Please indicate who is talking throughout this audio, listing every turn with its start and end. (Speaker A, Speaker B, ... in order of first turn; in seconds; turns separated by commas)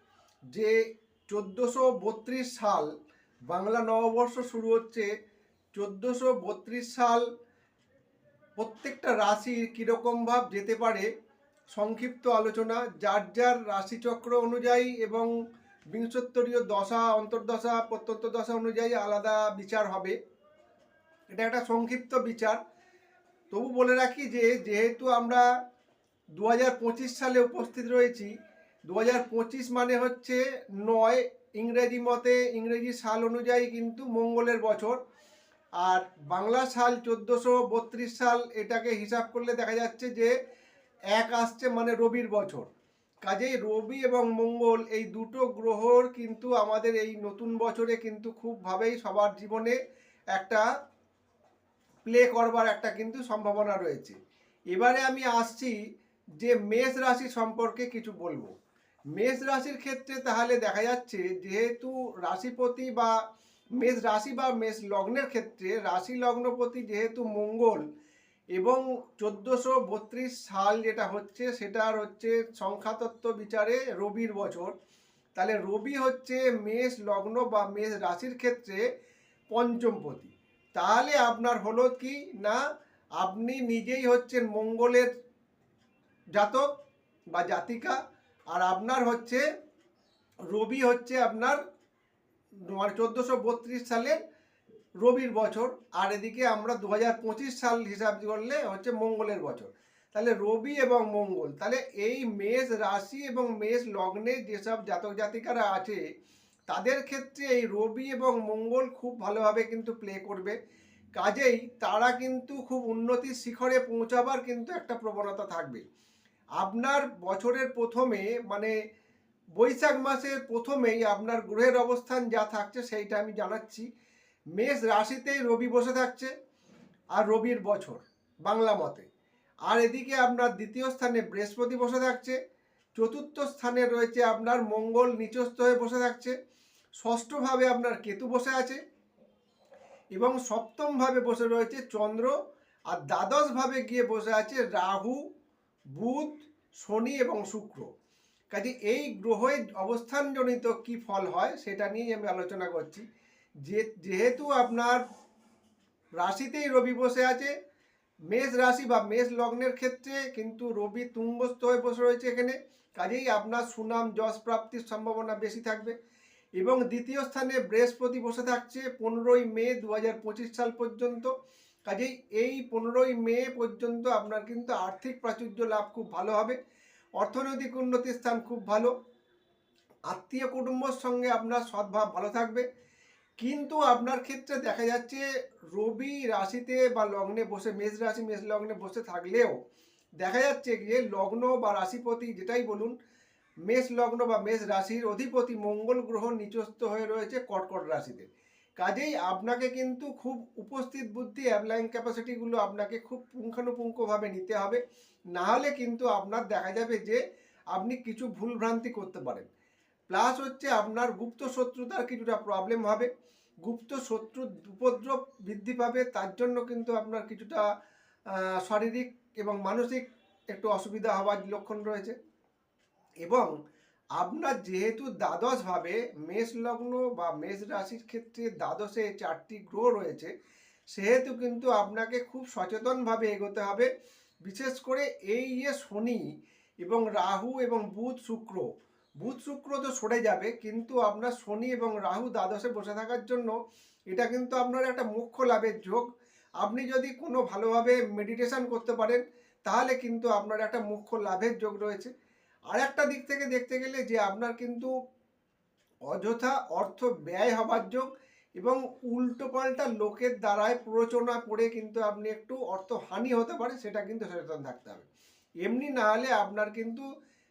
Speaker A: 1.3-2.9, Speaker A: 3.5-5.1, Speaker A: 5.7-7.2, Speaker A: 8.6-11.1, Speaker A: 11.7-15.3, Speaker A: 15.9-20.1, Speaker A: 21.3-22.6, Speaker A: 23.5-25.4, Speaker A: 26.3-28.3, Speaker A: 28.9-35.0, Speaker A: 35.8-40.3, Speaker A: 41.1-42.7, Speaker A: 43.2-49.8, Speaker A: 50.3-50.7, Speaker A: 52.0-54.2, Speaker A: 54.7-55.8, Speaker A: 56.4-58.5, Speaker A: 59.1-63.1, Speaker A: 63.8-67.8, Speaker A: 68.5-74.7, Speaker A: 75.4-78.8, Speaker A: 79.5-82.6, Speaker A: 83.2-85.1, Speaker A: 86.3-86.7, Speaker A: 87.3-88.0, Speaker A: 88.5-89.4, Speaker A: 90.5-91.6, Speaker A: 92.7-94.2, Speaker A: 95.0-106.0, Speaker A: 106.7-110.5, Speaker A: 111.2-115.8, Speaker A: 116.6-118.7, Speaker A: 119.5-123.8, Speaker A: 124.5-126.3, Speaker A: 127.2-129.0, Speaker A: 129.7-132.4, Speaker A: 132.9-136.3, Speaker A: 137.0-138.8, Speaker A: 140.2-142.3, Speaker A: 142.9-145.2, Speaker A: 145.9-147.9, Speaker A: 148.5-153.0, Speaker A: 153.6-155.0, Speaker A: 156.2-157.5, Speaker A: 158.3-165.9, Speaker A: 166.6-171.3, Speaker A: 171.9-176.6, Speaker A: 177.2-178.9, Speaker A: 180.1-182.7, Speaker A: 183.4-189.5, Speaker A: 190.2-192.9, Speaker A: 193.7-198.3, Speaker A: 198.8-204.8, Speaker A: 205.3-207.2, Speaker A: 207.7-209.4, Speaker A: 210.1-213.1, Speaker A: 213.6-217.7, Speaker A: 218.6-222.2, Speaker A: 223.2-223.5, Speaker A: 224.2-230.3, Speaker A: 230.9-233.9, Speaker A: 234.4-236.2, Speaker A: 236.8-238.7, Speaker A: 239.2-243.5, Speaker A: 244.1-246.1, Speaker A: 246.6-252.1, Speaker A: 252.7-254.9, Speaker A: 256.1-258.1, Speaker A: 258.6-265.1, Speaker A: 265.6-267.1